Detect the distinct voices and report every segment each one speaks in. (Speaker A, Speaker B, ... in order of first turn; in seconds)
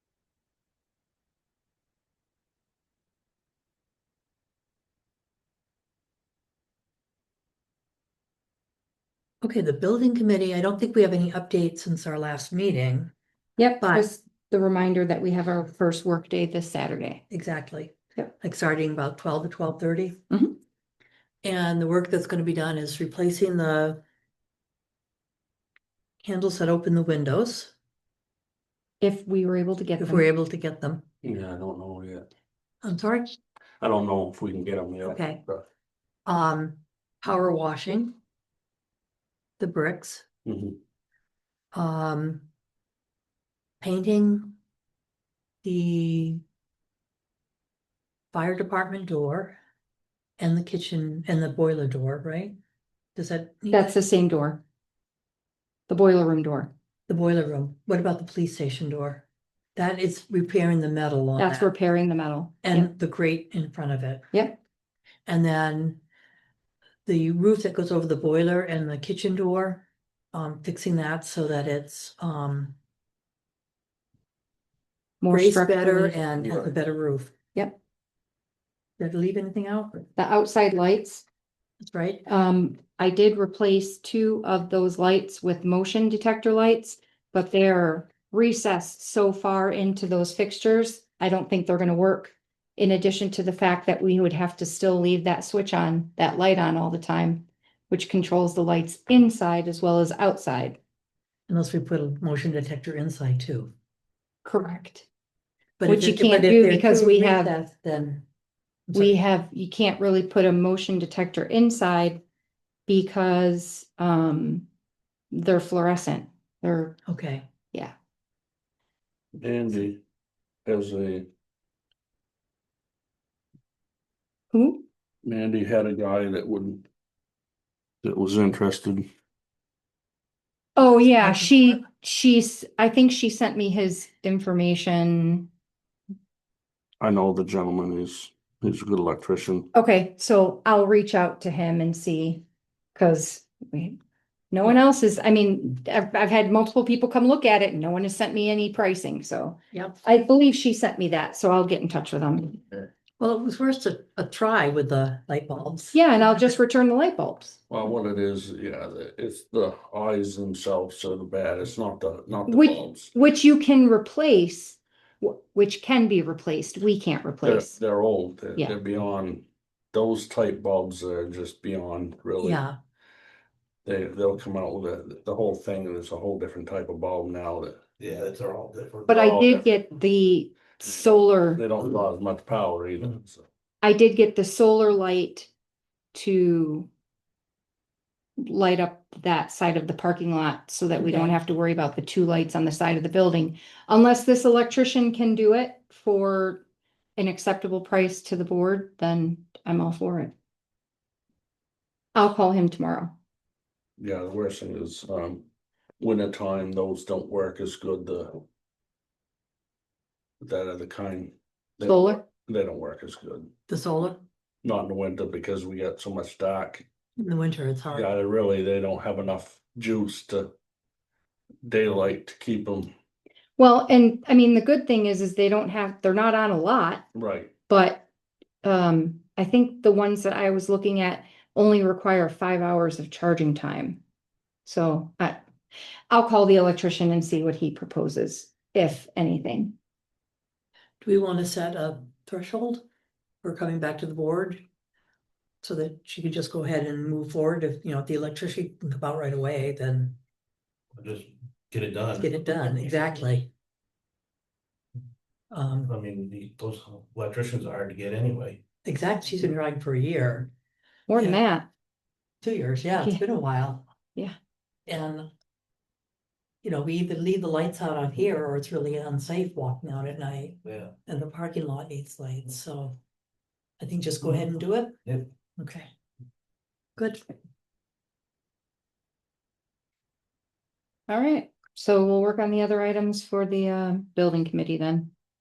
Speaker A: 9.4-13.1, 13.8-14.1, 17.3-20.2, 21.4-24.0, 26.2-27.7, 30.0-31.0, 32.8-33.4, 35.0-35.4, 36.2-38.1, 39.6-40.2, 41.7-42.5, 43.8-44.6, 45.6-46.4, 48.3-49.6, 50.4-52.5, 53.1-53.9, 57.1-61.7, 62.6-64.3, 65.2-66.0, 67.0-72.8, 75.3-77.3, 79.0-80.0, 81.8-82.3, 101.5-103.7, 105.8-108.3, 117.1-117.4, 149.7-150.0, 153.2-156.6, 172.4-172.8, 191.0-191.3, 213.7-214.2, 217.2-218.1, 241.0-242.8, 243.4-244.6, 245.6-250.2, 252.2-253.5, 255.5-255.9, 258.8-260.5, 262.4-263.9, 264.9-265.3, 266.6-273.0, 273.8-275.0, 275.6-275.9, 277.0-277.2
Speaker B: 13.6-17.2, 20.3-20.6, 29.0-30.2, 53.7-54.6, 55.9-56.7, 61.4-62.9, 75.2-76.2, 80.2-81.2, 82.3-100.8, 104.4-105.1, 105.8-107.5, 108.9-112.2, 112.9-114.7, 115.3-117.0, 124.5-124.8, 130.8-135.5, 139.7-142.4, 142.9-144.0, 144.5-152.6, 155.9-157.6, 162.5-167.8, 179.1-181.6, 183.8-185.5, 186.1-186.9, 188.4-196.6, 197.2-200.3, 202.1-203.1, 211.8-212.2, 223.6-227.1, 227.7-228.1, 228.6-234.0, 234.6-235.4, 236.1-239.7, 261.1-261.7, 263.0-263.2, 281.1-285.1
Speaker C: 31.2-32.3, 33.8-35.6, 40.4-40.8, 119.3-120.0, 120.7-121.3, 125.2-126.8, 128.0-129.1, 137.0-139.7, 157.7-163.1, 167.4-172.6, 173.8-177.8, 179.1-179.6, 181.5-183.4, 204.0-205.4, 206.0-208.4, 210.4-213.5, 214.6-216.8, 217.9-220.5, 221.6-222.9, 227.1-227.5
Speaker D: 178.0-179.1, 250.9-253.1, 255.8-258.6, 270.7-270.9